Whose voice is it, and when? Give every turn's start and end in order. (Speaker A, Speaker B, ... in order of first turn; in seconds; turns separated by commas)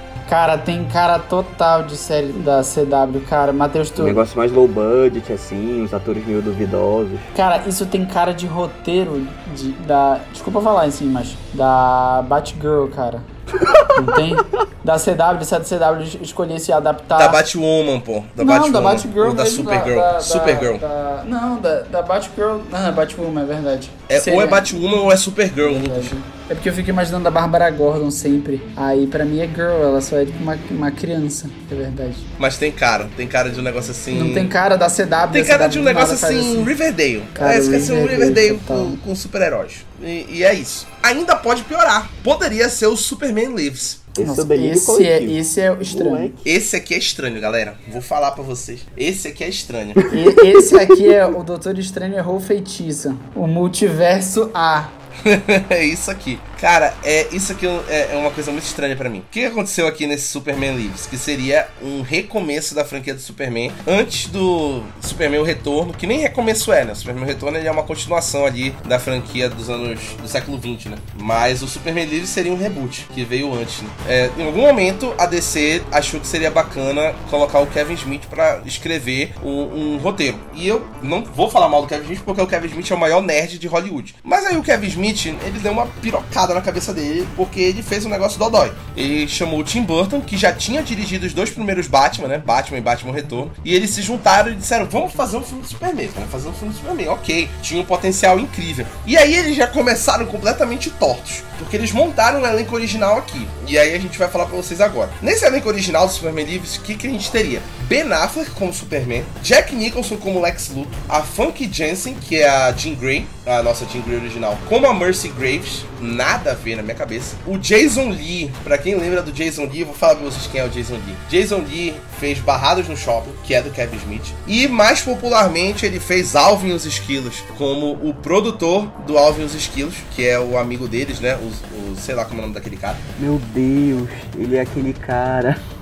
Speaker A: 0.2-4.2, Speaker B: 4.0-7.3, Speaker A: 7.3-13.3, Speaker B: 13.6-14.2, Speaker A: 13.9-17.4, Speaker C: 17.1-20.8, Speaker A: 18.4-24.7, Speaker C: 24.1-26.1, Speaker A: 25.6-32.3, Speaker C: 32.4-34.5, Speaker A: 34.1-36.7, Speaker C: 35.3-44.0, Speaker A: 37.3-39.0, Speaker B: 44.1-46.5, Speaker A: 44.2-46.3, Speaker C: 46.4-50.0, Speaker B: 50.0-51.1, Speaker A: 50.1-54.9, Speaker C: 55.2-133.0, Speaker B: 133.2-135.6